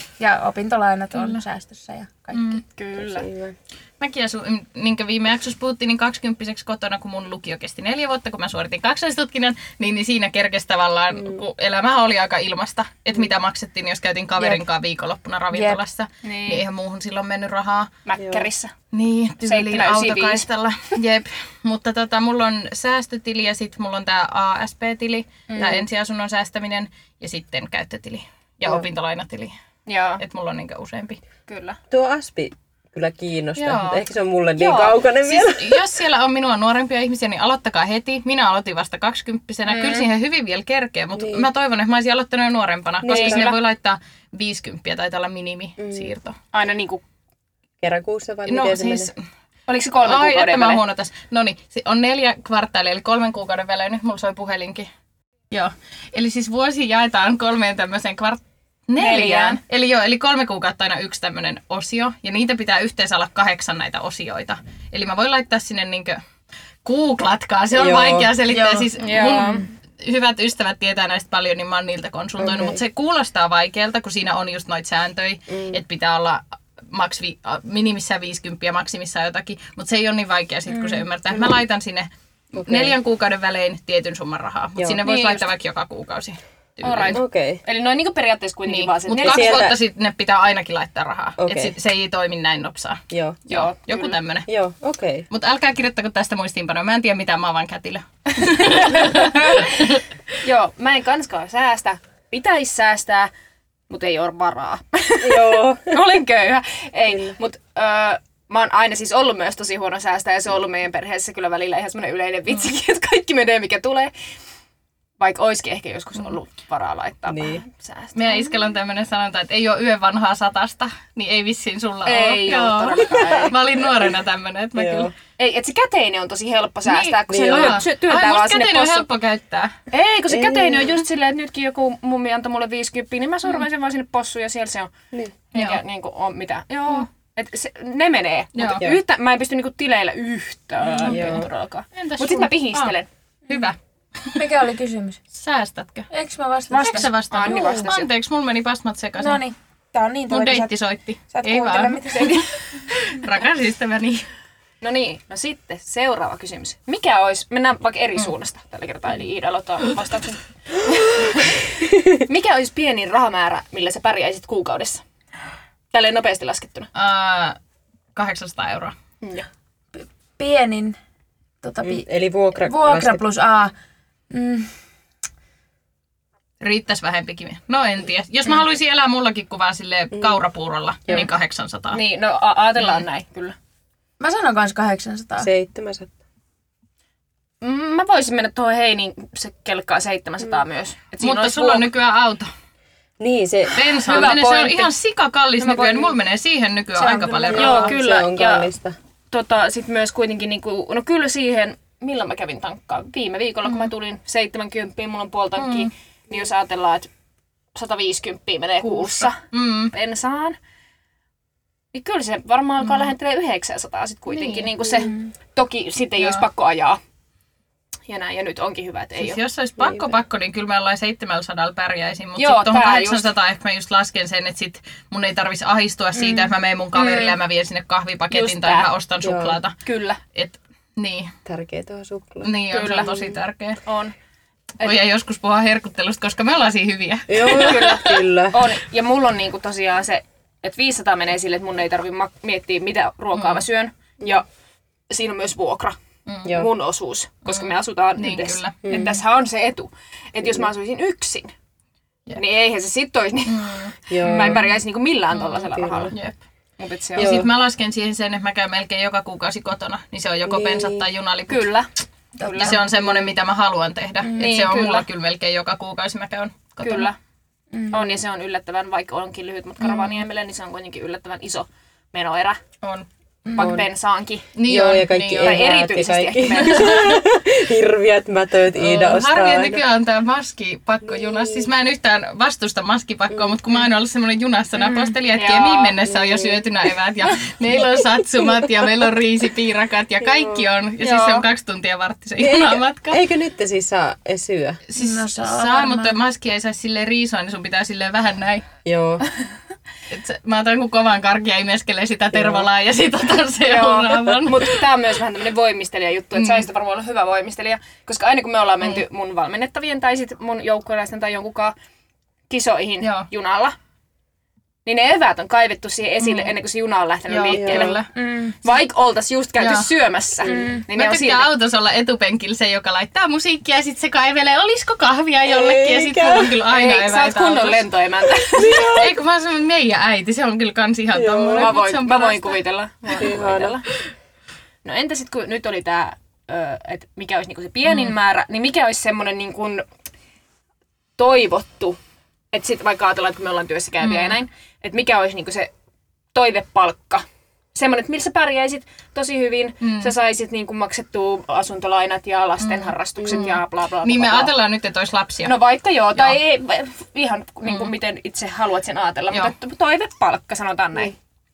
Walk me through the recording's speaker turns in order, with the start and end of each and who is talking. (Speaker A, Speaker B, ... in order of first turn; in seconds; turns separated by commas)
Speaker A: 0.2-2.6, Speaker B: 1.1-1.4, Speaker B: 2.3-2.6, Speaker C: 2.7-3.3, Speaker D: 3.0-3.6, Speaker B: 4.0-17.9, Speaker D: 11.1-11.4, Speaker A: 15.5-15.8, Speaker C: 16.2-16.6, Speaker C: 18.1-18.7, Speaker D: 18.2-18.5, Speaker B: 18.9-29.5, Speaker C: 19.4-20.5, Speaker C: 25.5-25.8, Speaker C: 29.9-30.2, Speaker B: 30.2-31.2, Speaker C: 31.5-31.8, Speaker D: 31.9-35.8, Speaker B: 33.6-34.0, Speaker C: 34.6-35.0, Speaker B: 35.2-46.4, Speaker C: 39.7-40.0, Speaker D: 41.2-41.5, Speaker D: 43.0-43.6, Speaker C: 43.1-43.4, Speaker D: 45.8-46.1, Speaker C: 46.5-47.0, Speaker D: 47.8-49.1, Speaker B: 48.5-49.2, Speaker C: 49.7-50.8, Speaker B: 50.0-54.9, Speaker B: 55.5-66.2, Speaker C: 59.0-59.6, Speaker B: 66.8-87.2, Speaker D: 67.8-68.3, Speaker A: 68.5-69.7, Speaker C: 69.0-69.7, Speaker D: 72.4-72.8, Speaker D: 75.5-75.8, Speaker A: 80.7-81.1, Speaker D: 81.3-81.6, Speaker D: 82.6-83.0, Speaker D: 84.8-85.0, Speaker C: 85.0-85.5, Speaker C: 86.8-89.7, Speaker D: 87.1-87.6, Speaker B: 88.7-94.5, Speaker D: 89.2-89.8, Speaker D: 91.4-91.7, Speaker D: 93.1-93.4, Speaker C: 93.5-94.2, Speaker D: 94.5-95.3, Speaker B: 95.3-100.0, Speaker C: 98.3-103.3, Speaker C: 103.9-114.1, Speaker D: 105.2-106.0, Speaker D: 107.1-107.3, Speaker C: 115.2-118.5, Speaker D: 117.3-117.6, Speaker B: 118.2-125.1, Speaker C: 122.1-123.6, Speaker D: 123.0-124.1, Speaker D: 124.7-125.1, Speaker C: 125.4-129.1, Speaker B: 126.8-129.8, Speaker D: 127.3-127.8, Speaker C: 129.9-134.9, Speaker D: 130.3-130.9, Speaker C: 135.5-143.1, Speaker B: 135.6-135.8, Speaker B: 138.6-138.9, Speaker B: 140.8-141.4, Speaker D: 141.0-141.5, Speaker B: 141.9-142.9, Speaker B: 143.5-144.5, Speaker A: 144.4-145.2, Speaker B: 145.3-146.1, Speaker A: 146.1-147.1, Speaker C: 146.7-148.1, Speaker B: 146.7-149.4, Speaker D: 147.4-147.9, Speaker A: 149.2-150.7, Speaker B: 150.3-154.2, Speaker A: 151.3-152.5, Speaker C: 154.8-161.7, Speaker C: 162.2-165.0, Speaker C: 165.9-166.9, Speaker B: 166.9-167.6, Speaker B: 168.2-168.9, Speaker C: 169.2-169.5, Speaker A: 169.9-171.0, Speaker A: 171.6-173.7, Speaker D: 171.8-173.2, Speaker A: 174.3-174.7, Speaker B: 176.6-182.0, Speaker D: 180.1-180.4, Speaker C: 181.9-183.6, Speaker B: 182.8-183.0, Speaker A: 184.2-185.5, Speaker D: 185.4-186.1, Speaker C: 187.6-191.9, Speaker B: 191.2-192.5, Speaker D: 193.2-194.2, Speaker B: 193.7-197.9, Speaker C: 193.8-194.9, Speaker C: 195.6-196.1, Speaker A: 197.0-197.6, Speaker D: 197.4-198.9, Speaker C: 197.5-198.7, Speaker C: 199.3-207.1, Speaker B: 205.6-205.9, Speaker C: 207.7-209.4, Speaker B: 208.8-209.9, Speaker C: 209.9-210.6, Speaker C: 211.9-217.0, Speaker B: 212.8-213.1, Speaker B: 214.3-214.7, Speaker A: 215.1-215.3, Speaker B: 216.2-216.4, Speaker C: 218.1-219.4, Speaker B: 219.2-229.7, Speaker D: 219.8-220.1, Speaker C: 222.4-223.3, Speaker C: 226.9-227.4, Speaker C: 228.3-228.9, Speaker D: 229.2-229.6, Speaker C: 229.8-230.2, Speaker B: 230.3-231.3, Speaker D: 231.4-232.5, Speaker B: 232.4-233.8, Speaker C: 232.7-234.1, Speaker B: 234.8-238.2, Speaker D: 237.3-238.7, Speaker C: 237.4-244.4, Speaker B: 243.3-243.6, Speaker C: 245.1-251.5, Speaker B: 246.2-246.6, Speaker B: 247.5-249.2, Speaker D: 248.8-249.1, Speaker C: 252.3-256.1, Speaker B: 253.5-254.6, Speaker D: 254.1-254.7, Speaker B: 255.3-256.4, Speaker D: 255.7-256.1, Speaker C: 256.8-257.4, Speaker D: 257.2-257.5, Speaker B: 257.2-261.7, Speaker D: 260.4-261.0, Speaker C: 261.5-261.9, Speaker C: 262.4-262.8, Speaker A: 262.4-262.8, Speaker B: 262.5-267.1, Speaker C: 264.3-265.1, Speaker C: 266.8-267.2, Speaker A: 267.7-268.1, Speaker C: 267.9-272.6, Speaker B: 269.9-270.2, Speaker A: 273.4-273.8, Speaker C: 273.6-274.5, Speaker D: 273.6-273.9, Speaker B: 274.6-275.6, Speaker D: 274.7-279.8, Speaker C: 275.4-277.0, Speaker B: 276.6-277.2, Speaker B: 278.8-293.2, Speaker D: 281.1-281.7, Speaker D: 283.3-283.6, Speaker C: 285.4-285.9, Speaker D: 286.1-286.6, Speaker D: 288.4-288.7, Speaker D: 290.2-290.7, Speaker C: 291.0-291.4, Speaker D: 292.4-294.8, Speaker B: 294.9-298.7, Speaker A: 294.9-296.1, Speaker D: 298.8-299.2, Speaker B: 300.1-304.8, Speaker D: 302.3-302.7, Speaker C: 303.6-311.7, Speaker B: 306.4-306.6, Speaker C: 312.5-313.8, Speaker B: 313.0-313.3, Speaker C: 314.8-318.1, Speaker B: 316.2-316.5, Speaker B: 317.3-318.1, Speaker D: 317.5-318.0, Speaker A: 318.1-318.6, Speaker C: 318.6-321.5, Speaker B: 319.6-319.9, Speaker B: 320.9-327.9, Speaker D: 325.4-326.6, Speaker C: 326.7-328.9, Speaker D: 328.5-329.2, Speaker B: 328.6-333.4, Speaker D: 331.1-331.7, Speaker C: 331.5-333.8, Speaker D: 333.2-333.8, Speaker C: 334.8-339.8, Speaker B: 337.8-338.1, Speaker C: 341.2-342.0, Speaker C: 342.5-345.7, Speaker B: 344.0-344.4, Speaker C: 346.3-354.5, Speaker B: 349.8-350.1, Speaker B: 352.6-355.6, Speaker D: 353.2-353.4, Speaker C: 355.4-361.1, Speaker B: 356.1-356.4, Speaker B: 357.7-357.9